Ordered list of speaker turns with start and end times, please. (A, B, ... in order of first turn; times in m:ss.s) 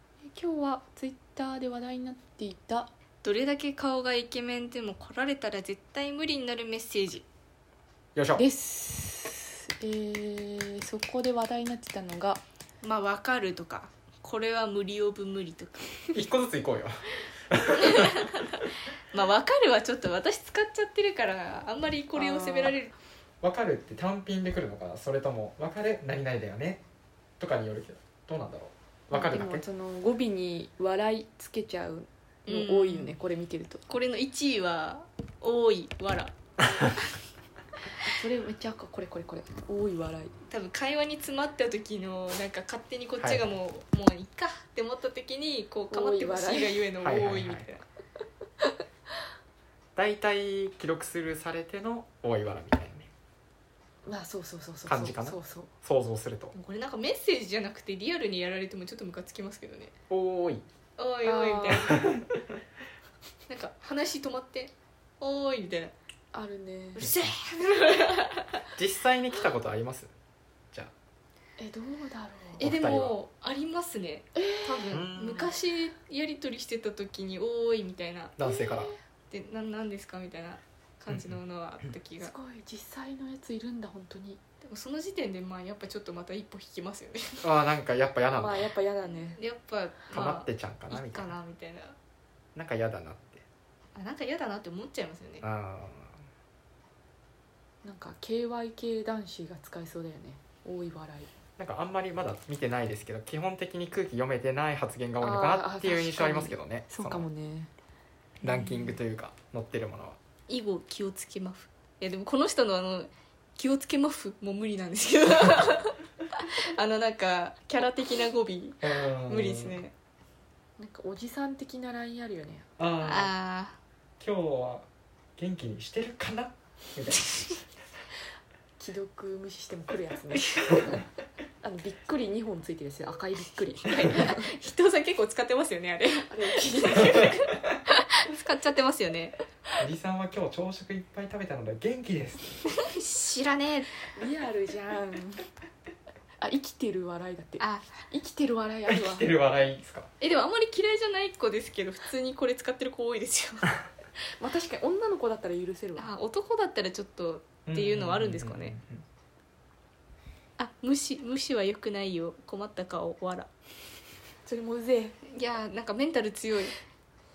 0:00.2-0:02.9 A
0:03.2-0:07.2 B
0:08.1-0:08.4 C
0:08.4-0:12.4 A
0:12.8-0:15.9 B
0:16.1-0:18.1 C
0:17.8-0:22.9 B
0:22.2-0:22.8 A
0:23.4-0:26.8 C
0:27.4-0:29.6 C
0:29.1-0:33.8 A
0:32.5-0:33.2 B
0:33.9-0:37.2 B
0:38.0-0:40.3 A
0:40.5-0:47.8 B
0:43.2-0:43.5 C
0:45.9-0:46.9 A
0:47.0-0:47.6 C
0:50.0-0:53.1 C
0:54.0-0:55.7 A
0:54.8-0:56.5 C
0:56.5-0:59.9 B
1:00.1-1:00.6 C
1:01.0-1:02.0 B
1:01.2-1:02.0 A
1:01.7-1:02.4 C
1:03.5-1:05.9 B
1:06.3-1:07.1 A
1:06.9-1:08.6 B
1:07.0-1:07.3 C
1:08.7-1:10.1 C
1:11.6-1:12.6 A
1:12.6-1:18.3 B
1:12.6-1:13.2 C
1:14.3-1:15.0 A
1:14.9-1:15.5 C
1:18.4-1:18.9 C
1:18.4-1:19.0 A
1:19.3-1:22.3 B
1:21.1-1:21.9 C
1:22.2-1:24.4 A
1:24.6-1:27.5 B
1:27.4-1:28.7 C
1:28.3-1:29.4 A
1:29.0-1:32.0 B
1:30.1-1:31.3 C
1:32.5-1:33.4 C
1:33.9-1:35.4 B
1:35.4-1:36.2 C
1:37.8-1:41.3 A
1:41.6-1:47.3 C
1:45.2-1:47.7 A
1:48.4-1:50.2 C
1:48.4-1:48.9 B
1:50.5-1:59.9 B
1:58.8-1:59.8 C
2:00.8-2:02.7 A
2:02.8-2:03.3 C
2:03.0-2:03.8 B
2:04.2-2:07.6 C
2:07.2-2:07.6 B
2:08.8-2:11.1 A
2:10.5-2:10.8 B
2:11.6-2:14.4 A
2:13.8-2:19.4 B
2:16.3-2:17.3 A
2:19.8-2:22.6 C
2:22.7-2:23.9 B
2:24.1-2:25.4 A
2:26.4-2:29.3 A
2:27.6-2:27.9 B
2:28.9-2:30.1 C
2:30.2-2:33.8 B
2:34.4-2:36.1 A
2:36.0-2:38.7 B
2:37.7-2:39.0 C
2:40.6-2:43.5 B
2:44.4-2:45.2 A
2:45.2-2:46.8 B